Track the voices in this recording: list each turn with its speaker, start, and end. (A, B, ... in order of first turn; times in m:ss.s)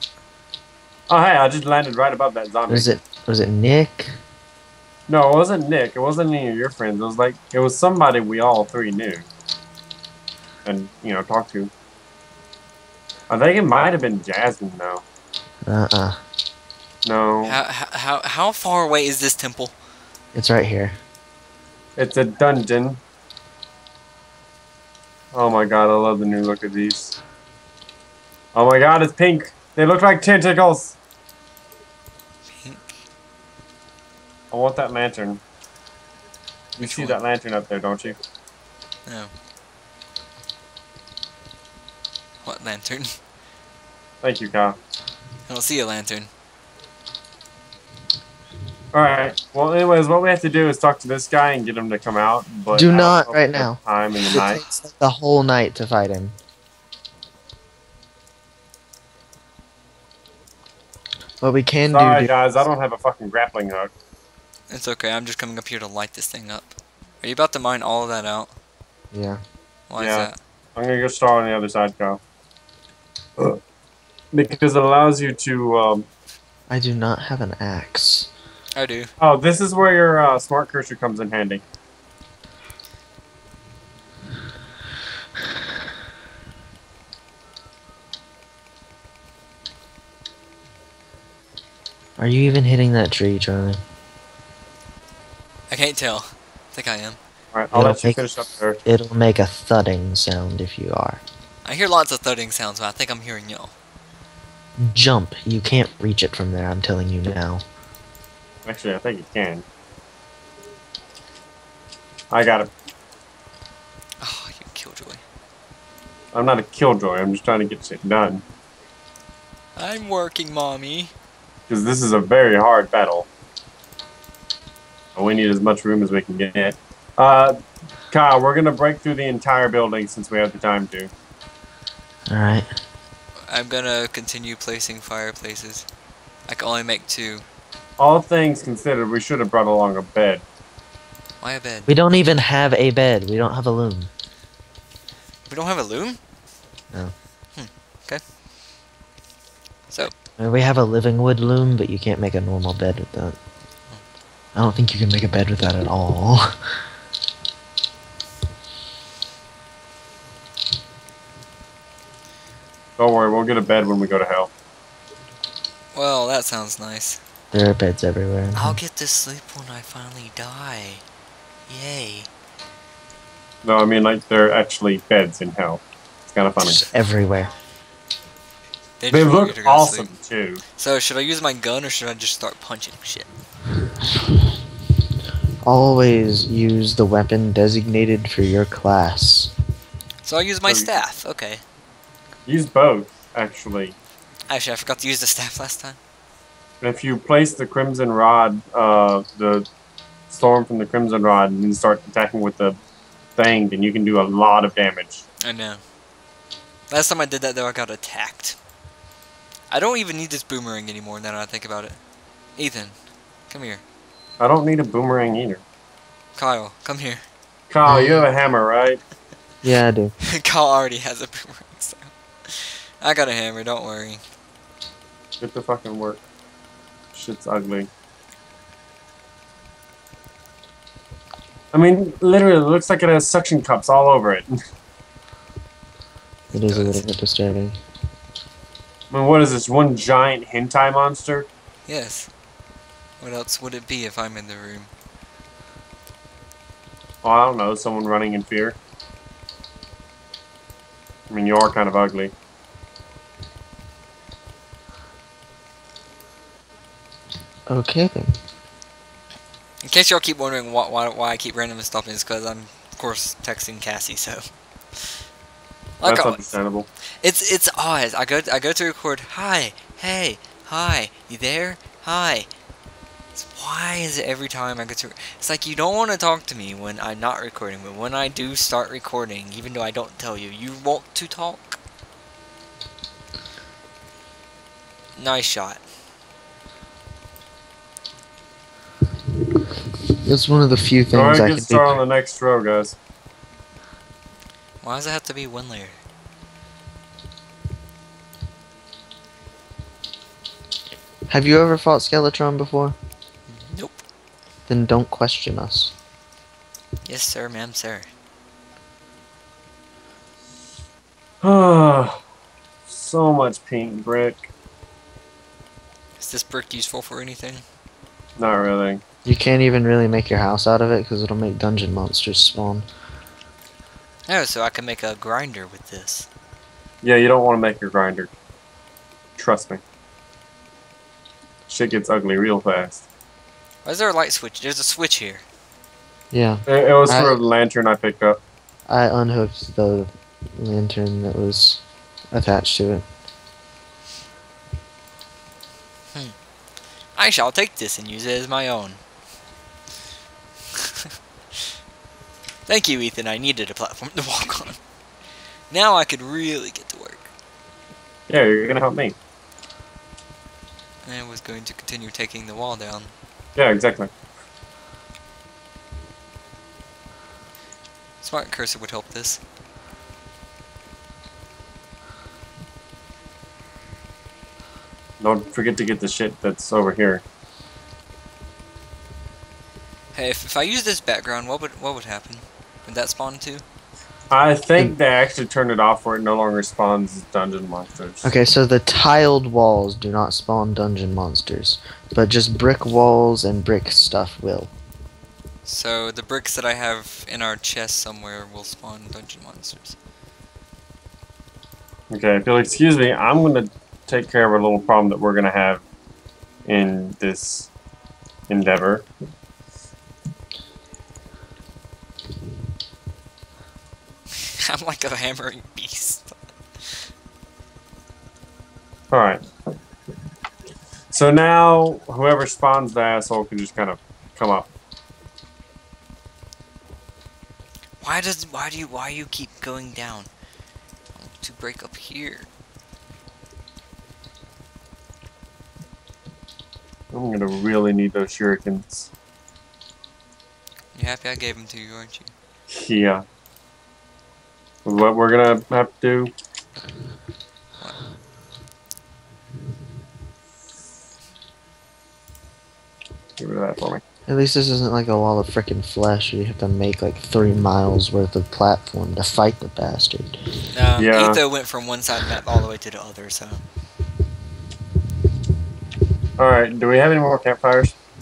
0:01.1-0:02.9 A
0:02.7-0:04.2 B
0:05.1-0:09.3 A
0:10.6-0:11.7 A
0:13.3-0:15.0 A
0:15.7-0:16.2 B
0:17.0-0:17.6 A
0:17.4-0:19.8 C
0:20.3-0:21.0 B
0:22.0-0:23.0 A
0:25.3-0:27.2 A
0:28.6-0:31.0 A
0:32.5-0:33.0 C
0:34.5-0:35.4 A
0:36.8-0:38.2 A
0:36.8-0:37.2 C
0:39.1-0:39.3 C
0:42.4-0:43.2 C
0:44.2-0:44.8 A
0:45.5-0:46.3 C
0:48.9-0:54.7 A
0:52.7-0:56.4 B
1:01.4-1:02.3 B
1:01.9-1:03.9 A
1:04.7-1:08.5 C
1:09.1-1:09.4 B
1:09.9-1:10.4 C
1:10.0-1:12.2 A
1:14.3-1:16.1 A
1:16.7-1:18.3 B
1:18.8-1:19.1 C
1:19.2-1:21.6 A
1:32.2-1:33.8 B
1:35.7-1:37.2 C
1:37.5-1:38.8 A
1:37.7-1:38.2 B
1:38.8-1:41.2 B
1:41.6-1:43.7 C
1:44.8-1:47.6 B
1:48.7-1:49.6 A
1:52.3-1:52.7 A
1:54.2-1:55.2 C
1:56.3-1:58.4 A
1:59.8-2:01.1 C
2:01.7-2:03.3 A
2:05.2-2:07.6 A
2:08.1-2:11.1 A
2:12.3-2:12.7 B
2:13.5-2:15.9 C
2:16.5-2:17.4 C
2:18.0-2:20.4 A
2:21.4-2:21.9 C
2:21.9-2:24.1 B
2:25.5-2:26.2 C
2:27.6-2:28.2 C
2:30.4-2:33.4 B
2:34.6-2:36.5 B
2:43.0-2:44.5 A
2:45.9-2:47.2 C
2:47.5-2:48.8 B
2:48.6-2:51.0 C
2:51.7-2:52.3 C
2:53.6-2:56.9 A
2:56.6-2:57.5 B
2:59.0-3:00.1 C
2:59.1-3:00.6 A
3:00.8-3:03.3 C
3:05.6-3:09.5 B
3:10.2-3:11.6 C
3:10.6-3:11.0 A
3:12.5-3:14.0 A
3:14.5-3:16.0 C
3:16.8-3:19.7 A
3:20.3-3:22.8 A
3:23.4-3:25.2 A
3:25.4-3:25.8 C
3:26.9-3:28.6 C
3:29.7-3:32.0 C
3:32.6-3:33.0 C
3:33.5-3:33.8 C
3:34.4-3:35.6 A
3:36.4-3:37.2 C
3:37.7-3:39.0 A
3:37.9-3:38.3 B
3:39.6-3:40.2 B
3:40.3-3:44.2 C
3:45.4-3:46.2 A
3:47.1-3:47.9 A
3:51.7-3:54.5 A
3:56.5-3:57.8 B
3:56.6-3:57.1 C
3:59.1-4:01.5 A
4:01.9-4:02.3 C
4:03.2-4:04.9 C
4:07.2-4:08.8 A
4:11.3-4:12.3 A
4:17.7-4:18.3 B
4:19.8-4:24.4 C
4:26.0-4:26.5 C
4:26.0-4:26.9 A
4:27.2-4:32.5 C
4:33.4-4:41.8 C
4:45.2-4:45.8 C
4:50.2-4:52.0 B
4:51.1-4:53.0 A
4:54.8-4:56.0 C
5:01.3-5:03.0 B
5:03.5-5:04.0 C
5:04.7-5:05.9 B
5:07.0-5:08.1 C
5:11.4-5:12.2 A
5:12.9-5:14.5 A
5:16.2-5:17.6 C
5:18.4-5:19.0 A
5:19.2-5:22.9 B
5:24.3-5:26.3 C
5:27.0-5:28.3 A
5:29.4-5:29.8 A
5:31.7-5:33.0 A
5:33.8-5:35.4 C
5:36.3-5:37.4 B
5:36.7-5:38.4 A
5:38.9-5:41.8 B
5:42.3-5:43.1 B
5:47.2-5:49.0 C
5:52.7-5:54.8 C
5:55.7-5:57.3 C
5:58.3-5:59.2 A
6:01.0-6:03.1 C
6:03.6-6:04.1 A
6:08.2-6:09.4 C
6:15.2-6:17.2 A
6:20.1-6:23.6 C
6:24.3-6:28.3 A
6:28.2-6:34.7 B
6:35.6-6:40.0 C
6:42.1-6:45.8 A
6:46.7-6:47.7 A
6:48.5-6:49.1 A
6:54.6-6:56.4 C
6:59.1-6:59.4 A
7:01.1-7:04.7 A
7:08.0-7:10.3 C
7:11.2-7:12.5 C
7:17.1-7:19.1 A
7:20.9-7:22.3 C
7:22.7-7:23.2 A
7:24.8-7:26.3 A
7:33.4-7:34.0 A
7:34.3-7:40.4 B
7:40.7-7:43.6 C
7:41.0-7:41.4 A
7:46.4-7:48.0 A